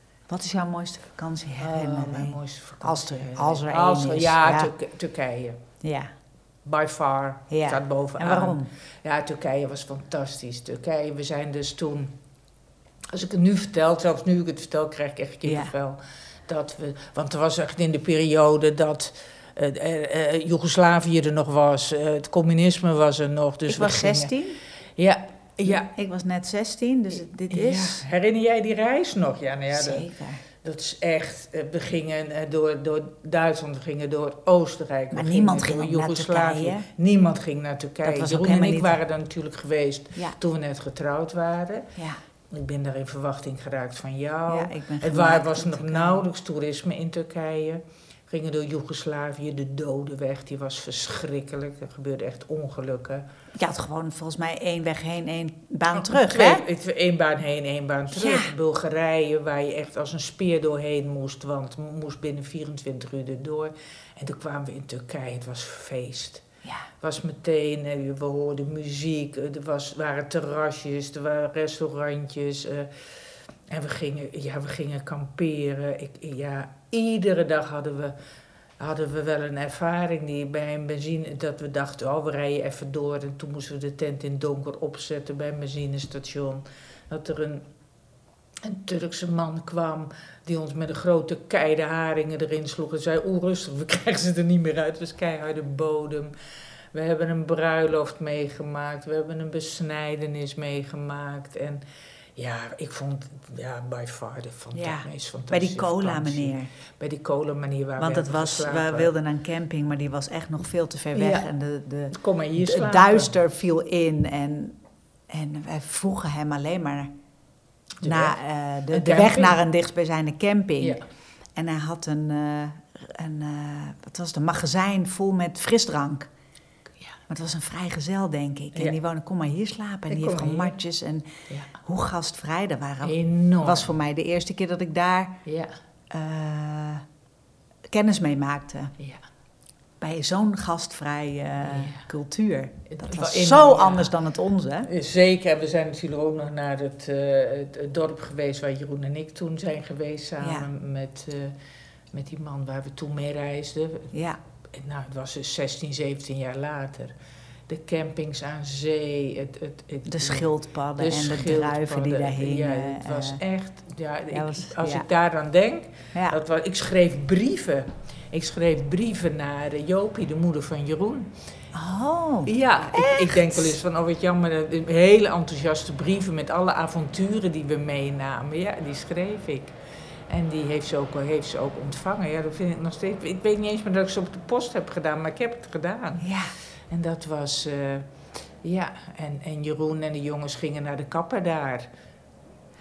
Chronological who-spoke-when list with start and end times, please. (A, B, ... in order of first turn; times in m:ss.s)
0:00.3-0:04.7 A
0:01.6-0:05.6 B
0:05.8-0:06.1 A
0:06.6-0:12.1 B
0:07.5-0:08.7 A
0:13.1-0:24.3 B
0:15.4-0:15.7 A
0:23.7-0:24.6 A
0:25.0-0:25.9 B
0:25.6-0:28.0 A
0:27.5-0:30.0 B
0:29.7-0:30.4 A
0:30.6-0:41.9 B
0:35.1-0:36.9 A
0:38.0-0:39.0 A
0:42.0-0:42.2 A
0:42.5-0:53.2 B
0:44.5-0:46.2 A
0:53.6-0:56.6 A
0:55.9-1:06.4 B
0:58.1-0:58.5 A
1:06.6-1:06.9 A
1:07.0-1:13.0 B
1:13.7-1:18.1 B
1:18.8-1:27.6 B
1:28.6-1:36.3 B
1:36.9-1:41.8 B
1:42.4-1:49.1 B
1:44.7-1:46.7 A
1:48.0-1:54.8 A
1:51.1-1:51.5 B
1:52.1-1:53.4 B
1:55.3-1:57.1 A
1:58.0-1:58.3 B
1:58.0-2:01.0 A
1:58.9-1:59.6 B
2:01.6-2:06.3 A
2:07.3-2:15.4 A
2:10.1-2:10.8 B
2:13.0-2:13.9 B
2:15.4-2:15.8 B
2:16.1-2:17.0 A
2:17.9-2:18.9 A
2:19.0-2:19.2 B
2:20.0-2:24.9 A
2:21.6-2:22.0 B
2:22.9-2:24.1 B
2:24.8-2:31.6 B
2:30.4-2:30.6 A
2:32.1-2:34.1 B
2:34.1-2:34.4 A
2:34.7-2:37.1 B
2:37.7-2:51.3 B
2:40.0-2:43.4 A
2:44.3-2:45.1 A
2:46.1-2:46.4 A
2:51.7-2:53.8 A
2:52.5-2:59.8 B
3:00.3-3:06.3 B
3:06.2-3:06.5 A
3:06.9-3:08.1 B
3:08.6-3:11.9 B